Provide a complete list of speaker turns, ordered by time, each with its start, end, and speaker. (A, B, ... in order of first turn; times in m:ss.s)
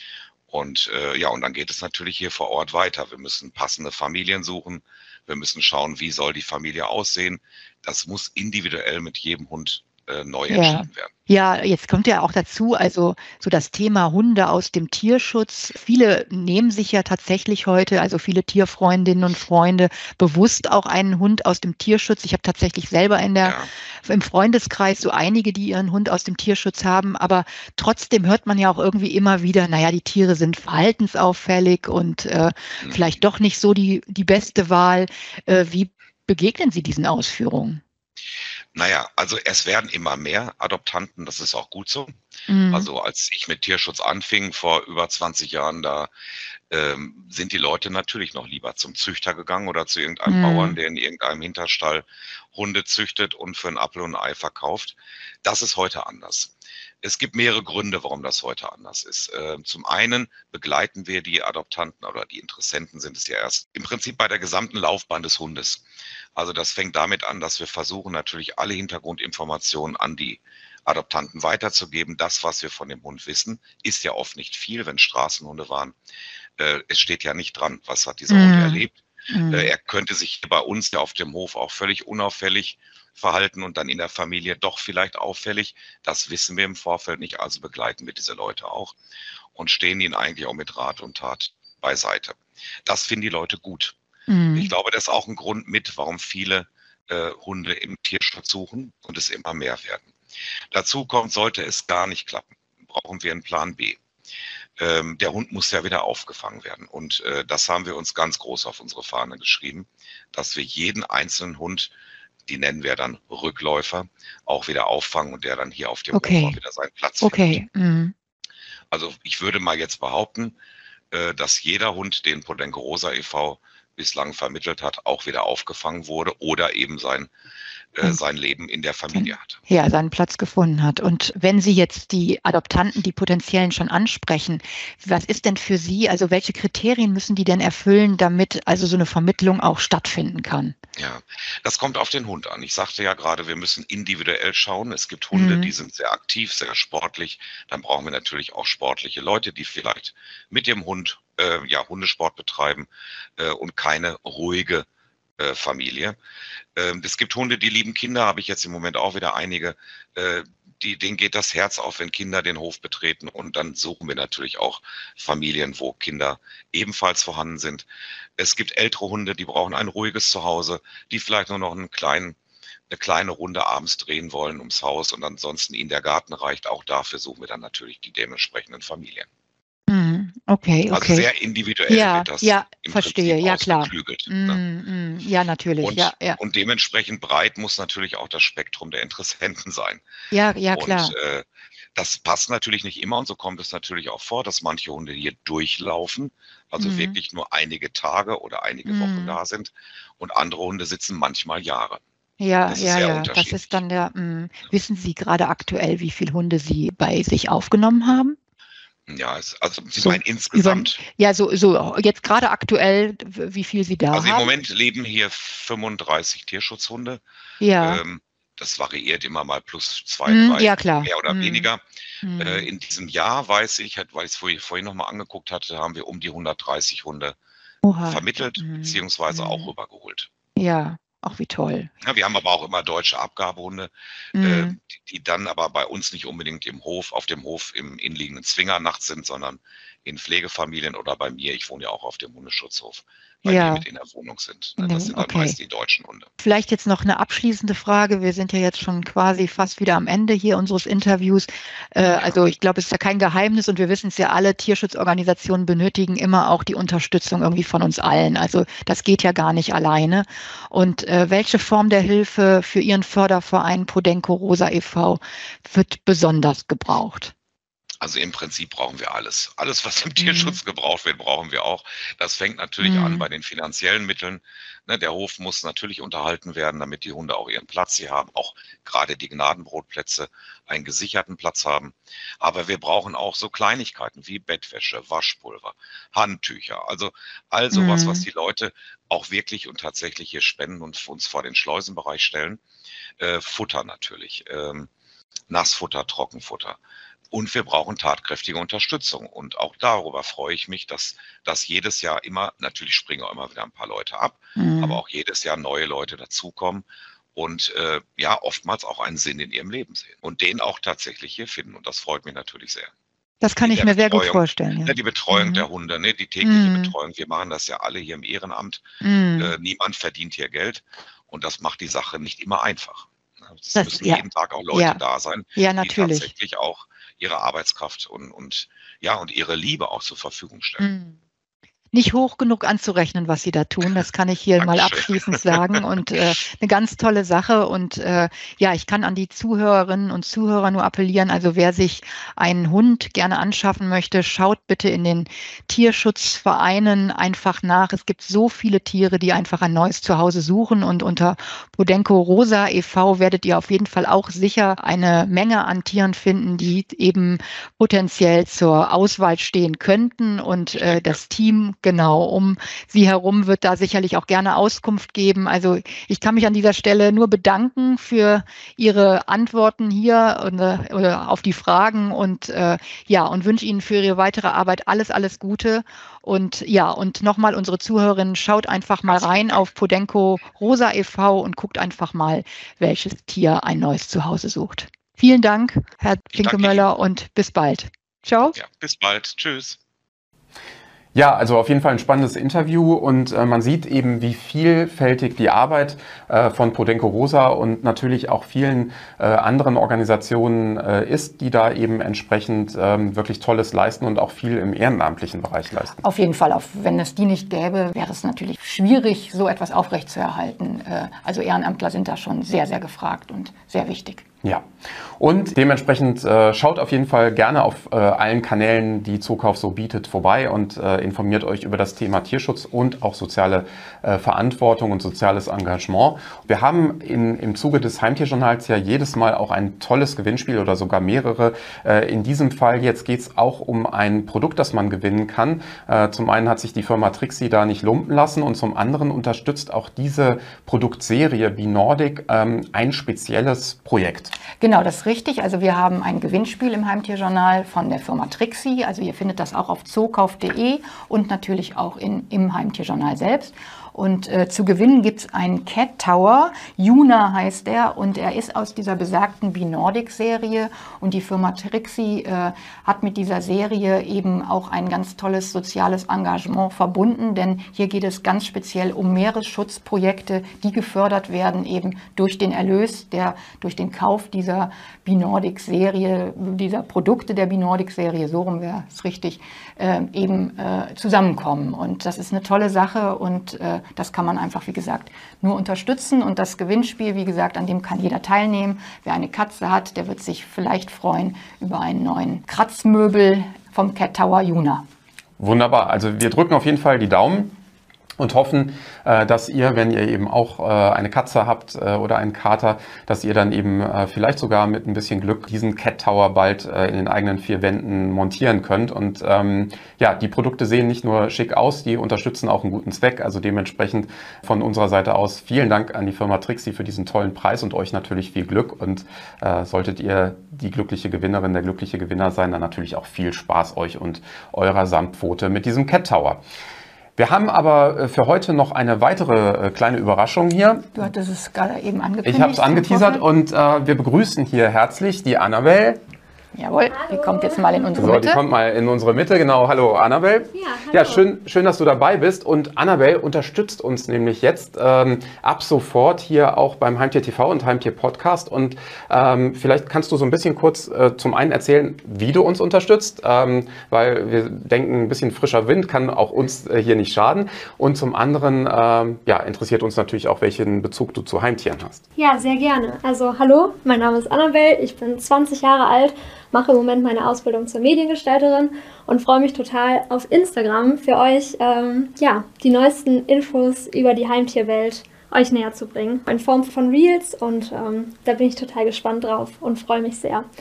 0:00.5-0:11.1 A
0:10.5-0:37.8 B
0:23.4-0:23.7 A
0:32.8-0:33.2 A
0:38.7-0:42.2 A
0:42.5-0:42.9 B
0:42.7-0:46.1 A
0:46.7-0:56.5 A
0:50.3-0:50.8 B
0:57.0-1:05.8 A
1:06.4-1:16.0 A
1:16.6-1:19.0 A
1:18.3-1:19.7 B
1:19.5-1:29.0 A
1:29.6-1:34.0 A
1:34.3-1:34.7 B
1:34.5-1:40.1 A
1:40.7-1:44.0 A
1:44.8-1:51.9 A
1:52.5-1:57.6 A
1:56.1-1:56.6 B
1:57.2-1:58.1 B
1:58.9-2:00.6 A
2:01.1-2:07.3 A
2:08.0-2:09.6 A
2:09.1-2:20.8 B
2:21.0-2:34.9 A
2:25.3-2:25.7 B
2:35.4-2:36.2 A
2:36.8-2:47.9 A
2:48.4-2:52.4 A
2:52.9-2:59.3 A
2:59.9-3:01.3 B
3:00.9-3:04.6 A
3:01.9-3:06.4 B
3:05.8-3:10.0 A
3:10.3-3:11.1 B
3:10.7-3:22.0 A
3:16.8-3:17.2 B
3:18.8-3:19.4 B
3:22.4-3:28.4 B
3:22.7-3:23.8 A
3:29.1-3:31.0 A
3:30.0-3:34.5 B
3:34.1-3:37.2 A
3:37.6-3:38.0 B
3:37.8-3:41.8 A
3:40.3-3:41.7 B
3:42.2-3:42.7 B
3:42.4-3:47.4 A
3:47.8-3:49.7 B
3:48.0-3:50.3 A
3:50.6-3:51.9 B
3:52.0-4:06.3 A
3:54.4-3:54.8 B
4:03.5-4:03.8 B
4:04.8-4:05.6 B
4:06.4-4:27.3 B
4:12.0-4:12.5 A
4:28.0-4:52.6 A
4:30.2-4:30.6 B
4:32.8-4:33.3 B
4:47.7-4:48.2 B
4:53.2-4:54.9 A
4:55.5-4:56.8 A
4:57.3-5:12.9 A
5:04.6-5:05.0 B
5:13.4-5:15.7 B
5:13.6-5:18.8 A
5:16.4-5:16.9 B
5:19.0-5:19.5 B
5:19.4-5:30.9 A
5:23.8-5:25.0 B
5:25.6-5:26.3 B
5:30.8-5:31.1 B
5:31.9-6:28.6 B
5:34.6-5:35.8 A
6:00.7-6:01.2 A
6:19.1-6:19.7 A
6:26.3-6:26.9 A
6:28.5-6:29.8 A
6:31.2-6:46.0 C
6:46.0-6:54.2 D
6:55.2-7:24.3 C
7:24.6-8:14.8 D
8:15.4-8:17.6 C
8:18.2-8:46.4 C
8:47.2-8:51.0 C
8:51.0-8:53.3 D
8:52.2-8:56.0 C
8:56.5-8:58.4 D
8:56.9-8:57.9 E
8:58.0-9:22.0 C
9:00.5-9:01.2 E
9:22.2-9:40.4 E